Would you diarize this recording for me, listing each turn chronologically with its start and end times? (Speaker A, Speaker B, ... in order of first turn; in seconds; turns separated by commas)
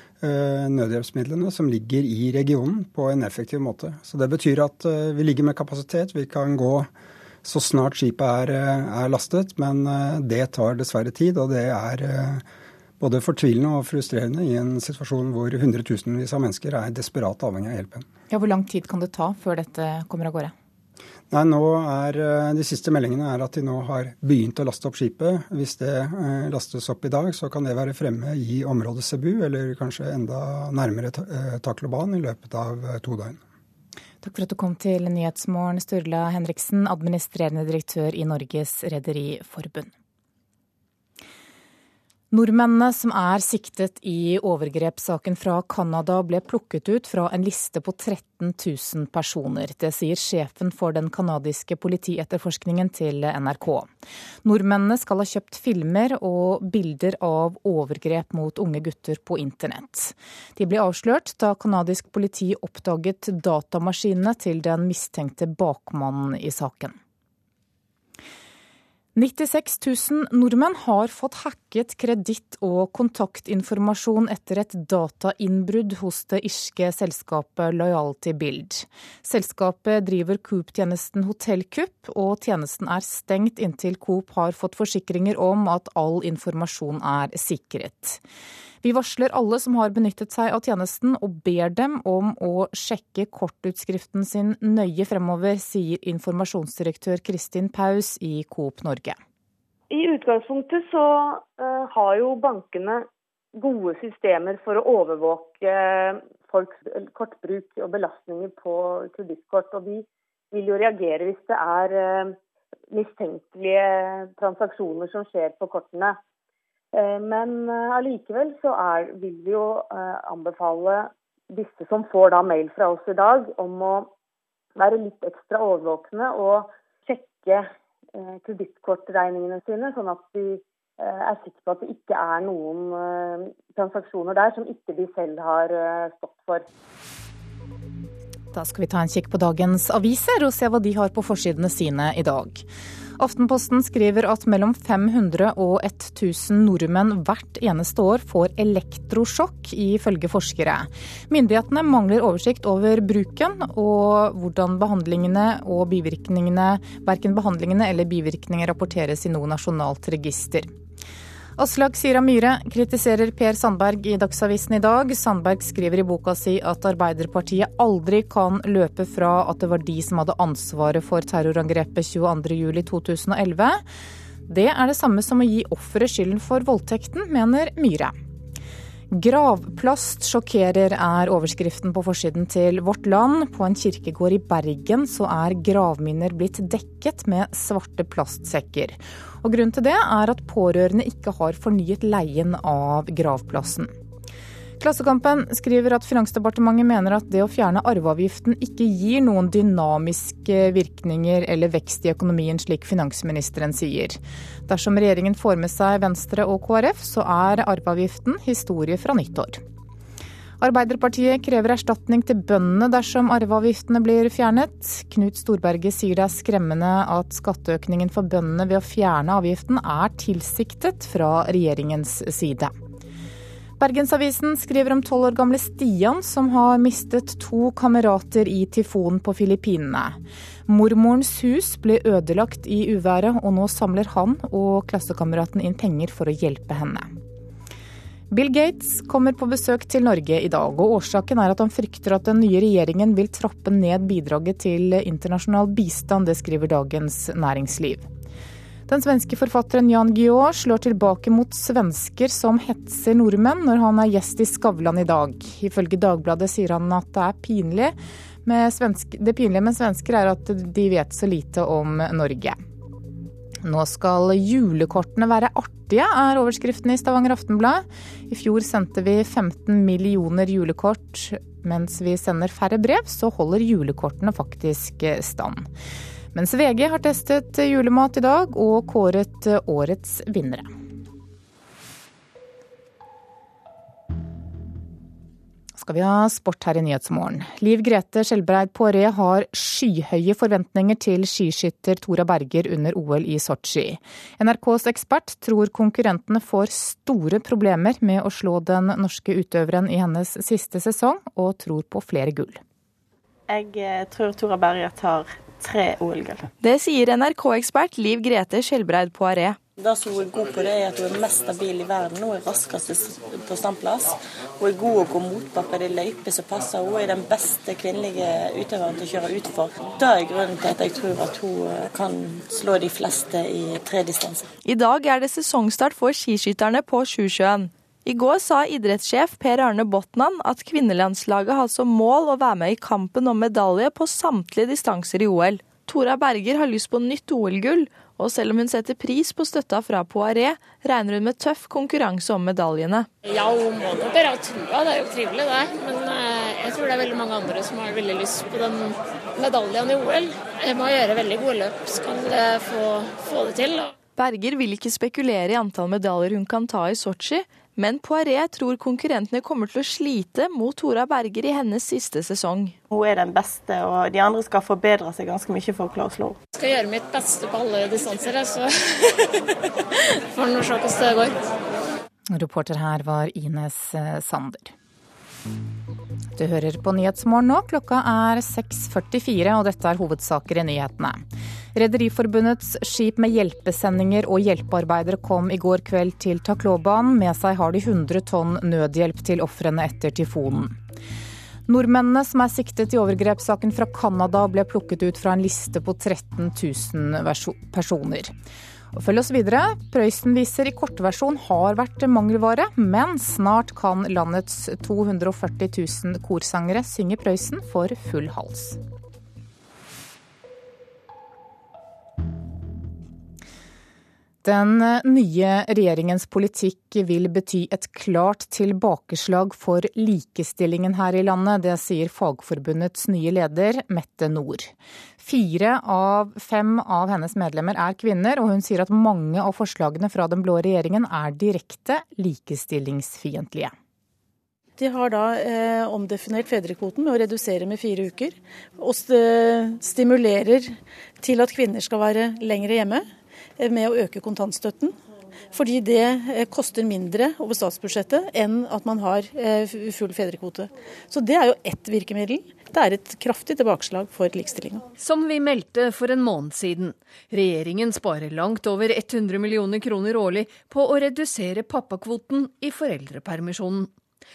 Speaker A: 0.2-6.9, Speaker A: 7.4-12.4, Speaker A: 13.0-18.1, Speaker B: 18.3-20.5, Speaker A: 21.3-33.4, Speaker B: 34.2-39.9, Speaker B: 42.3-53.9, Speaker B: 54.4-67.0, Speaker B: 69.2-88.2, Speaker B: 88.8-99.2, Speaker C: 99.9-112.4, Speaker C: 112.9-116.2, Speaker C: 116.9-124.1, Speaker C: 124.8-136.7, Speaker B: 138.5-142.7, Speaker B: 143.2-160.7, Speaker B: 161.6-173.8, Speaker B: 174.5-178.2, Speaker B: 179.1-193.9, Speaker B: 194.8-209.6, Speaker B: 210.6-222.7, Speaker B: 223.8-237.1, Speaker B: 238.3-248.1, Speaker B: 248.9-262.6, Speaker B: 263.6-275.7, Speaker B: 276.3-280.7, Speaker B: 285.8-302.6, Speaker D: 303.5-306.5, Speaker E: 306.6-309.6, Speaker D: 309.8-324.5, Speaker E: 324.6-343.1, Speaker F: 343.2-354.0, Speaker E: 354.1-362.8, Speaker D: 362.9-366.4, Speaker F: 366.6-368.7, Speaker F: 370.3-371.4, Speaker B: 372.3-374.7, Speaker B: 376.4-381.2, Speaker B: 381.8-390.8, Speaker B: 391.7-398.3, Speaker B: 398.9-408.8, Speaker B: 414.4-433.7, Speaker G: 434.8-443.1, Speaker G: 443.6-444.9, Speaker G: 445.5-454.9, Speaker H: 455.0-463.9